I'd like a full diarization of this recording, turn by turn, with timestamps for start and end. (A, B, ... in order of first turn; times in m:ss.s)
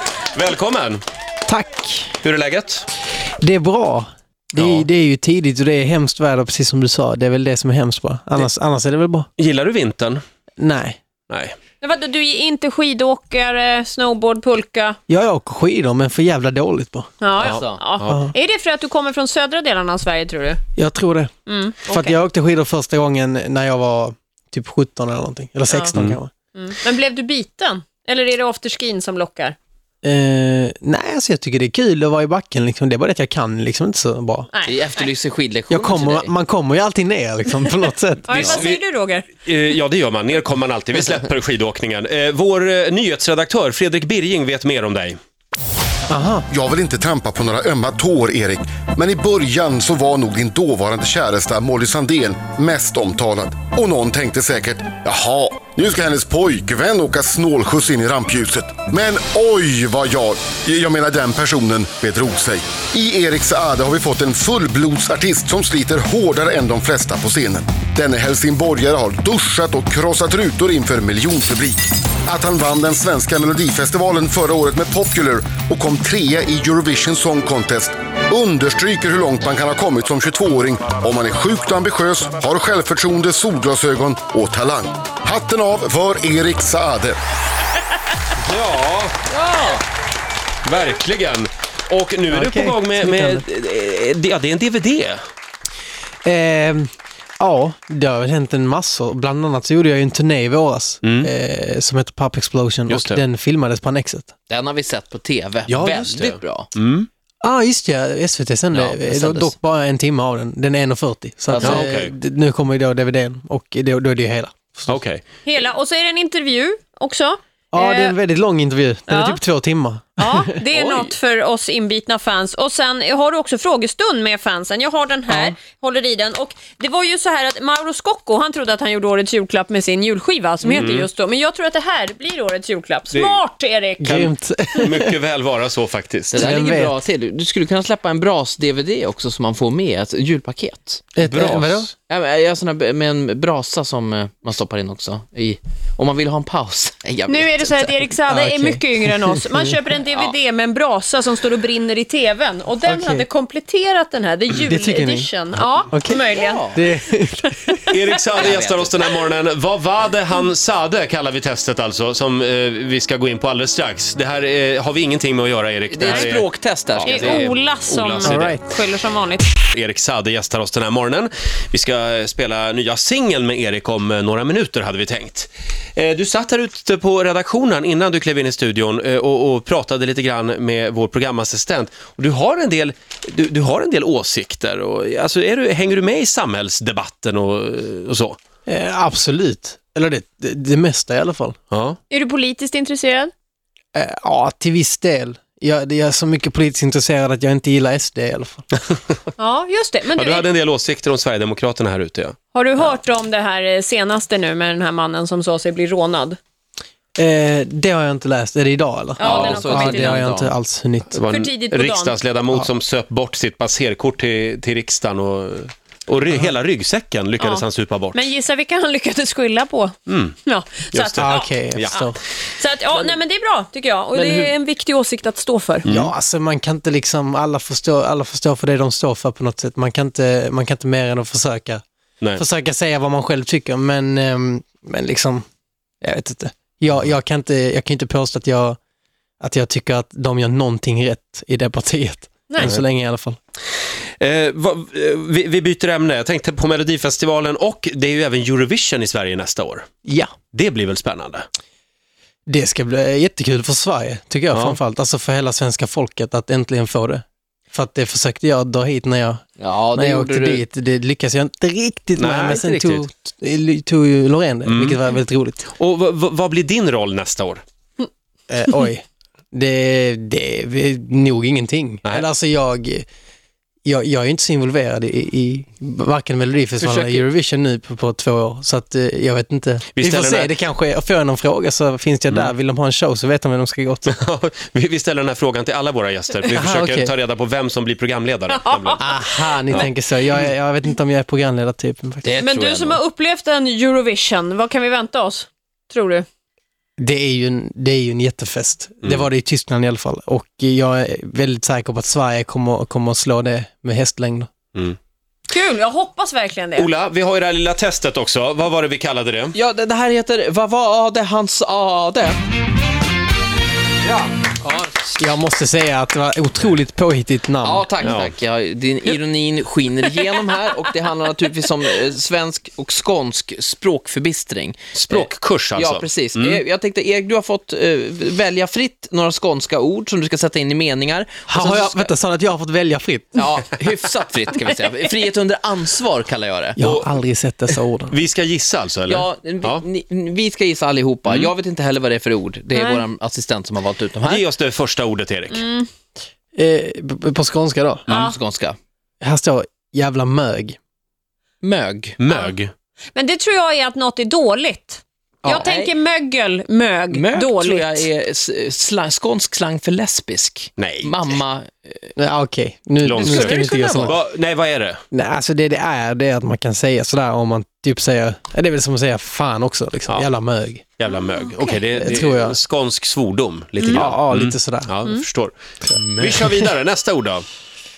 0:00.3-0:01.0 A
0:01.5-0:02.2 B
0:02.2-0:02.9 A
0:03.4-0:09.3 B
0:04.6-0:04.9 A
0:09.4-0:10.2 A
0:10.6-0:11.0 B
0:11.3-0:11.6 A
0:11.8-0:15.0 C
0:15.1-0:17.1 B
0:17.2-0:20.6 C
0:17.4-0:18.2 A
0:17.4-0:17.8 D
0:20.8-0:21.3 B
0:21.5-0:22.2 C
0:21.9-0:26.3 B
0:25.7-0:26.0 C
0:26.6-0:29.6 C
0:30.0-0:34.5 B
0:34.5-0:34.8 C
0:34.7-0:36.3 D
0:35.7-0:38.3 B
0:38.3-0:39.3 C
0:38.3-0:38.6 D
0:38.4-0:38.8 A
0:39.4-0:45.2 A
0:46.1-0:46.5 B
0:46.5-1:27.2 E
1:28.4-1:29.2 A
1:29.3-1:29.8 D
1:30.6-1:35.2 A
1:32.3-1:33.4 B
1:36.2-1:44.3 B
1:41.0-1:41.3 A
1:42.9-1:43.2 A
1:44.5-1:46.7 D
1:45.7-1:47.1 A
1:47.4-1:55.0 B
1:48.7-1:49.6 D
1:51.5-1:51.8 D
1:51.6-1:52.1 A
1:54.9-1:55.2 A
1:55.5-1:58.2 C
1:57.7-2:00.6 B
1:59.1-1:59.4 C
2:00.2-2:14.2 C
2:00.7-2:01.1 D
2:05.3-2:05.6 B
2:10.8-2:11.1 A
2:13.1-2:13.4 A
2:14.0-2:15.2 B
2:14.8-2:16.5 A
2:16.3-2:28.0 D
2:16.3-2:17.0 B
2:21.2-2:21.9 B
2:21.3-2:21.8 A
2:27.3-2:36.7 C
2:28.3-2:29.8 B
2:32.8-2:33.3 B
2:34.6-2:35.3 B
2:35.9-2:37.9 B
2:36.3-2:36.8 D
2:37.9-2:48.6 A
2:38.4-2:39.0 D
2:45.9-2:47.6 D
2:46.1-2:46.3 C
2:47.0-2:49.5 C
2:48.2-2:48.7 B
2:49.7-3:08.4 A
3:08.7-3:11.6 B
3:11.7-3:12.0 A
3:12.1-3:13.3 C
3:13.9-3:18.7 B
3:19.4-3:20.5 C
3:20.2-3:22.4 A
3:22.5-3:26.4 C
3:27.2-3:31.2 B
3:29.2-3:30.2 C
3:29.2-3:30.5 D
3:31.1-3:38.3 A
3:31.3-3:32.2 C
3:37.4-3:45.9 C
3:40.1-3:40.4 A
3:40.9-3:42.0 A
3:41.2-3:42.2 B
3:45.8-3:46.1 A
3:45.9-3:51.8 B
3:52.4-3:55.4 B
3:56.0-3:58.8 B
3:59.4-4:03.4 B
4:02.5-4:02.8 C
4:04.2-4:09.9 A
4:10.0-4:10.3 B
4:10.5-4:11.5 A
4:12.5-4:25.7 B
4:14.5-4:14.8 A
4:19.6-4:20.6 D
4:22.2-4:23.1 A
4:24.7-4:25.0 A
4:25.7-4:27.6 A
4:28.5-4:33.1 B
4:33.8-4:44.1 B
4:36.8-4:37.2 A
4:40.0-4:40.6 A
4:44.1-4:49.0 A
4:46.5-4:47.1 B
4:48.5-4:49.8 C
4:49.0-4:52.3 B
4:52.2-4:53.0 D
4:52.4-4:56.3 C
4:57.0-5:04.5 B
5:05.5-5:06.9 C
5:06.8-5:09.6 A
5:09.5-5:12.4 D
5:14.0-5:14.3 A
5:14.6-5:15.2 D
5:15.2-5:17.9 B
5:17.6-5:32.1 D
5:18.0-5:18.4 A
5:25.0-5:26.6 A
5:31.5-5:33.4 B
5:33.4-5:36.8 D
5:36.8-5:38.2 B
5:36.8-5:37.1 A
5:38.1-5:39.8 A
5:39.1-5:44.5 D
5:42.8-5:43.0 C
5:44.2-5:45.6 A
5:45.5-5:45.9 C
5:46.6-5:48.1 B
5:48.1-5:48.8 D
5:48.1-5:48.4 C
5:49.2-5:50.8 B
5:51.6-5:52.2 D
5:52.2-5:52.7 A
5:52.3-5:52.5 C
5:53.2-5:58.1 C
5:55.4-5:55.9 D
5:57.1-6:02.1 D
6:00.8-6:01.2 A
6:02.2-6:04.2 B
6:03.0-6:05.0 A
6:03.2-6:04.1 C
6:05.1-6:10.9 B
6:11.0-6:17.4 A
6:11.1-6:11.8 C
6:11.9-6:12.6 B
6:13.9-6:14.9 B
6:15.8-6:16.7 B
6:16.1-6:16.4 D